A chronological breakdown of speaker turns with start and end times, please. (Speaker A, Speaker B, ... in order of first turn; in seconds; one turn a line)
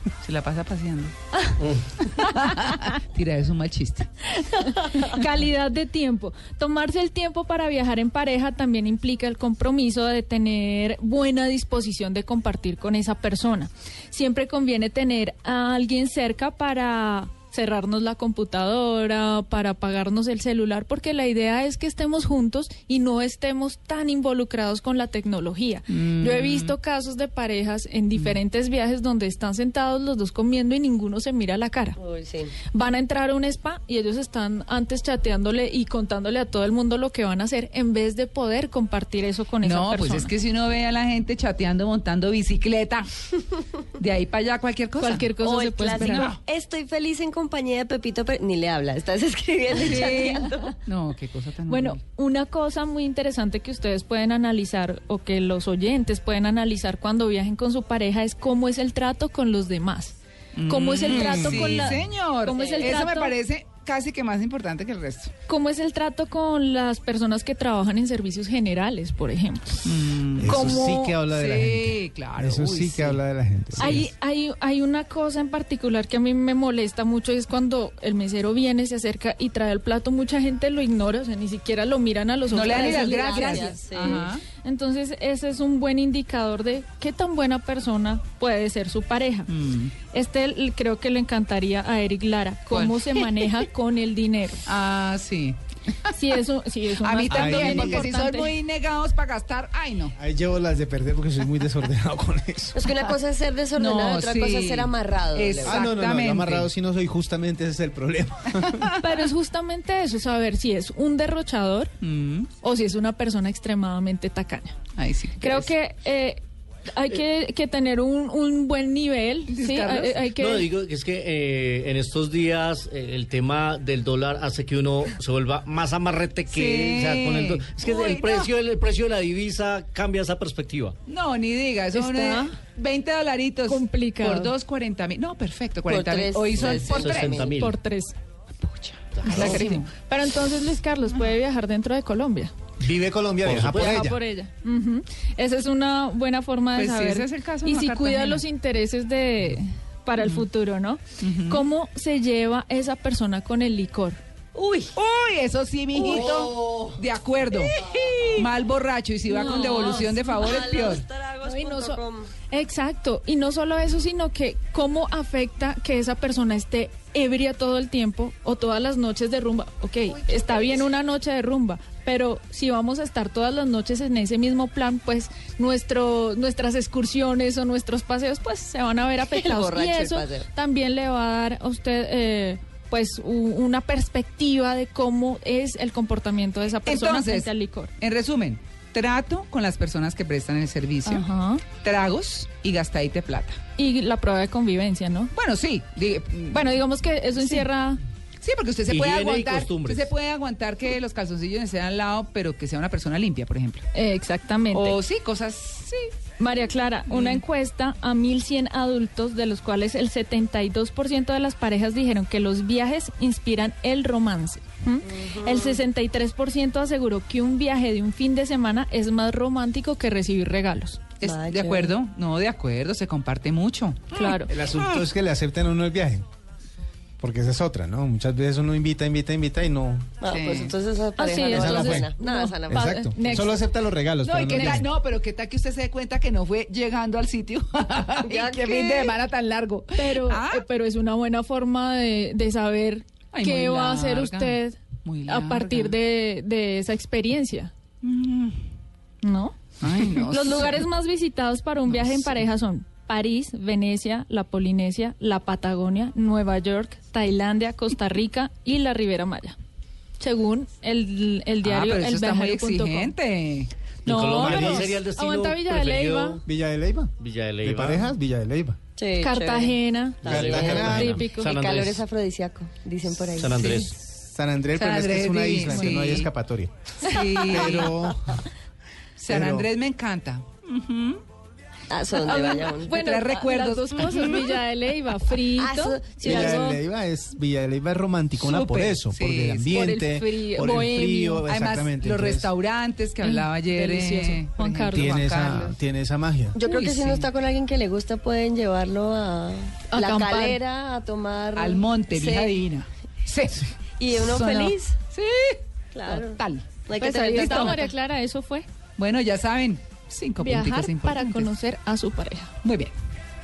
Speaker A: 0.2-1.1
Speaker B: 1.3-2.5
Speaker A: 2.2-4.1
Speaker B: 4.3-32.0
Speaker A: 25.9-26.7
Speaker C: 32.0-32.5
Speaker B: 32.7-40.3
Speaker A: 39.6-43.4
Speaker A: 43.9-45.3
Speaker B: 45.0-46.3
Speaker C: 45.4-50.8
Speaker A: 45.9-46.4
Speaker A: 49.7-52.0
Speaker B: 51.7-63.4
Speaker A: 60.5-65.3
Speaker D: 61.1-61.9
Speaker C: 62.5-63.1
Speaker B: 65.5-69.9
Speaker A: 69.8-70.8
Speaker D: 70.4-74.1
Speaker B: 70.4-71.2
Speaker A: 71.3-73.2
Speaker A: 73.8-74.1
Speaker B: 73.8-89.5
Speaker A: 82.5-84.4
Speaker C: 82.7-84.3
Speaker A: 89.5-89.9
Speaker B: 90.1-94.7
Speaker A: 92.7-93.3
Speaker A: 94.7-95.6
Speaker B: 96.1-98.5
Speaker A: 97.0-100.2
Speaker D: 97.3-98.1
Speaker D: 100.2-102.8
Speaker C: 102.7-105.8
Speaker A: 103.7-106.7
Speaker D: 105.6-108.8
Speaker B: 109.0-111.9
Speaker A: 112.0-112.5
Speaker B: 112.6-114.8
Speaker A: 114.9-115.7
Speaker B: 115.4-120.7
Speaker A: 119.5-120.2
Speaker E: 120.3-130.9
Speaker A: 126.5-128.5
Speaker A: 131.1-137.4
Speaker B: 131.9-132.5
Speaker B: 133.6-134.5
Speaker C: 135.9-137.6
Speaker E: 136.6-137.7
Speaker B: 137.5-138.2
Speaker A: 138.8-139.9
Speaker B: 139.2-142.5
Speaker E: 139.2-139.5
Speaker D: 142.8-144.2
Speaker E: 143.4-144.1
Speaker B: 143.7-154.2
Speaker A: 146.7-148.4
Speaker A: 151.2-151.6
Speaker C: 154.6-154.9
Speaker A: 154.9-161.0
Speaker C: 156.0-156.9
Speaker C: 157.8-158.4
Speaker B: 159.3-160.1
Speaker C: 159.3-162.3
Speaker B: 161.4-187.9
Speaker C: 170.3-170.8
Speaker C: 179.3-180.5
Speaker A: 186.8-191.2
Speaker B: 191.1-191.6
Speaker A: 191.8-193.6
Speaker B: 193.8-195.3
Speaker A: 195.3-196.8
Speaker B: 196.5-198.0
Speaker A: 198.4-203.8
Speaker E: 198.9-200.1
Speaker B: 203.9-205.0
Speaker A: 204.7-206.1
Speaker B: 206.4-221.1
Speaker A: 207.1-207.4
Speaker C: 215.0-215.8
Speaker A: 221.2-225.0
Speaker C: 221.2-221.9
Speaker B: 224.1-224.5
Speaker D: 224.5-226.2
Speaker D: 227.2-230.2
Speaker C: 230.2-233.0
Speaker A: 230.2-230.8
Speaker B: 231.2-233.6
Speaker D: 231.4-232.1
Speaker D: 232.7-234.9
Speaker A: 234.2-240.6
Speaker B: 234.5-234.8
Speaker C: 238.2-239.1
Speaker B: 239.9-247.7
Speaker A: 243.3-245.9
Speaker A: 248.0-248.6
Speaker B: 249.2-249.6
Speaker A: 249.8-250.8
Speaker B: 250.1-259.6
Speaker B: 260.2-263.1
Speaker A: 261.6-263.7
Speaker B: 264.0-266.4
Speaker E: 264.0-266.4
Speaker D: 264.2-264.9
Speaker D: 266.4-268.8
Speaker E: 267.2-268.1
Speaker C: 269.0-273.7
Speaker B: 269.2-271.6
Speaker D: 270.2-271.2
Speaker E: 270.2-272.1
Speaker E: 273.4-273.9
Speaker B: 273.6-273.9
Speaker D: 274.1-276.7
Speaker A: 274.7-276.3
Speaker A: 277.1-277.9
Speaker D: 277.4-278.4
Speaker A: 279.2-281.2
Speaker D: 279.3-279.7
Speaker C: 281.9-282.9
Speaker A: 282.2-284.5
Speaker B: 282.2-286.8
Speaker C: 285.5-286.8
Speaker D: 286.2-292.5
Speaker A: 288.4-289.9
Speaker B: 289.7-291.4
Speaker A: 291.5-295.8
Speaker B: 293.2-295.2
Speaker D: 294.9-296.6
Speaker C: 296.5-302.6
Speaker A: 296.6-297.3
Speaker B: 299.9-300.6
Speaker A: 301.5-307.8
Speaker C: 304.0-304.9
Speaker C: 305.9-307.9
Speaker B: 307.0-308.7
Speaker A: 309.0-311.5
Speaker B: 310.4-312.5
Speaker A: 312.6-312.9